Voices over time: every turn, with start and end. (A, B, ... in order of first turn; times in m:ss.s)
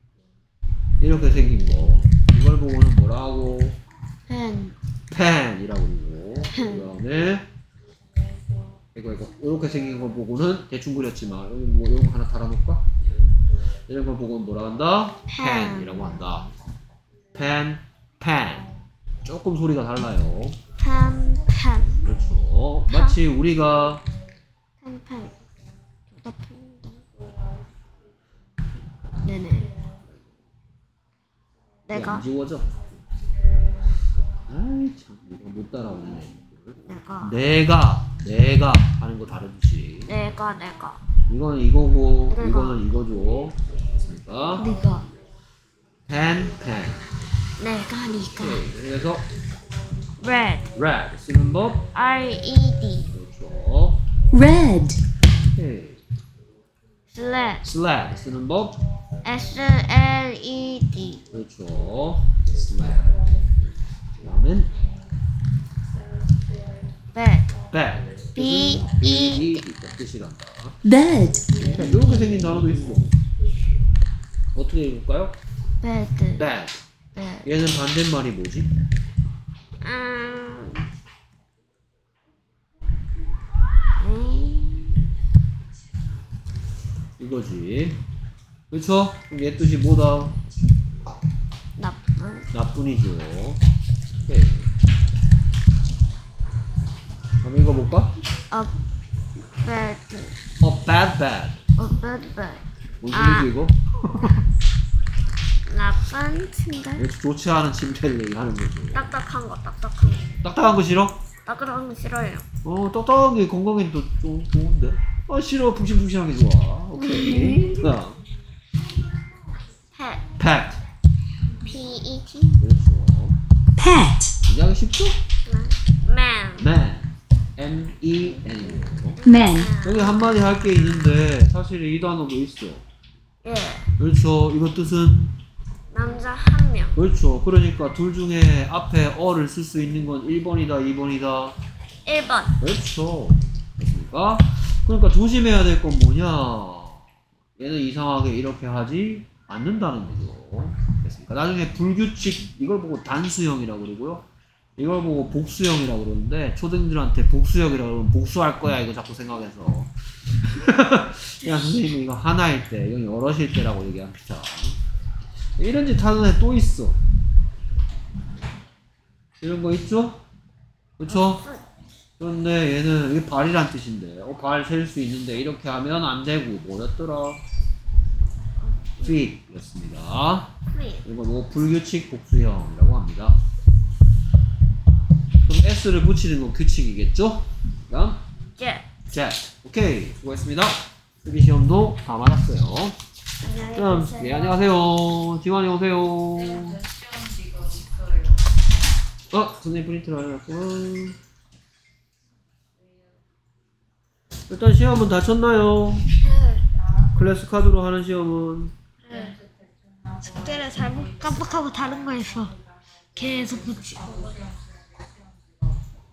0:01.0-0:03.8 A
0:04.3-0:04.8 B
0:05.1-0:07.4 A
0:06.5-0:06.8 B
0:08.9-0:12.8 A
0:13.9-0:16.5 A
0:15.3-0:16.2 B
0:17.3-0:18.7 A
0:19.2-0:20.6 A
0:20.8-0:22.0 B
0:22.0-0:24.0 A
0:22.9-0:23.2 B
0:24.8-0:25.3 B
0:26.2-0:27.0 B
0:29.2-0:29.7 B
0:31.9-0:32.2 B
0:31.9-0:32.7 A
0:34.5-0:40.1 A
0:36.8-0:37.4 B
0:40.1-0:41.0 B
0:41.3-0:44.7 A
0:42.3-0:42.8 B
0:44.6-0:45.0 B
0:46.1-0:47.0 A
0:47.6-0:48.7 B
0:48.3-0:49.3 A
0:50.2-0:50.7 B
0:50.7-0:51.8 A
0:51.9-0:53.1 B
0:53.1-0:54.0 A
0:54.3-0:55.0 C
0:55.4-0:56.0 A
0:57.1-0:57.6 B
0:57.6-0:58.8 A
0:59.2-1:01.2 B
1:01.3-1:03.2 A
1:04.2-1:04.7 A
1:07.1-1:07.5 B
1:07.7-1:10.8 A
1:08.4-1:09.6 B
1:10.8-1:11.5 C
1:11.6-1:13.1 A
1:11.6-1:12.8 B
1:14.5-1:15.4 A
1:15.8-1:16.5 B
1:16.4-1:16.8 A
1:17.1-1:17.5 B
1:17.4-1:18.7 A
1:19.8-1:20.8 B
1:24.0-1:25.0 B
1:27.2-1:28.0 A
1:28.7-1:30.4 A
1:31.8-1:32.5 B
1:32.5-1:33.6 A
1:34.2-1:34.7 A
1:37.4-1:38.1 A
1:38.5-1:38.8 B
1:39.6-1:40.4 B
1:40.6-1:41.6 A
1:41.8-1:43.5 B
1:43.0-1:44.4 A
1:45.7-1:47.0 B
1:47.0-1:49.1 A
1:48.9-1:50.4 B
1:50.4-1:51.2 A
1:51.4-1:52.4 B
1:52.6-1:58.2 A
1:57.0-1:57.7 B
1:59.9-2:00.2 B
2:00.4-2:00.8 A
2:01.6-2:02.6 B
2:02.6-2:03.4 A
2:03.8-2:04.3 C
2:04.4-2:05.2 A
2:05.4-2:06.7 B
2:06.6-2:09.2 A
2:09.2-2:10.4 B
2:09.2-2:09.7 C
2:09.8-2:12.8 A
2:13.4-2:13.9 B
2:14.0-2:15.4 A
2:15.9-2:17.0 B
2:17.0-2:21.6 A
2:22.0-2:22.6 B
2:22.6-2:27.0 A
2:27.6-2:34.2 A
2:34.8-2:39.9 A
2:40.4-2:44.8 A
2:45.6-2:47.0 A
2:49.4-2:50.2 A
2:51.0-2:51.4 A
2:51.1-2:51.6 B
2:52.2-2:57.4 A
2:58.6-2:59.2 B
2:59.0-3:00.5 A
3:00.7-3:01.0 B
3:01.0-3:03.4 A
3:05.4-3:08.2 A
3:08.6-3:08.8 B
3:09.1-3:13.0 A
3:13.4-3:14.6 B
3:13.8-3:16.8 A
3:19.3-3:21.2 A
3:24.5-3:26.1 A
3:26.2-3:26.6 B
3:27.1-3:28.7 A
3:29.1-3:29.4 B
3:30.2-3:32.5 B
3:33.2-3:34.5 B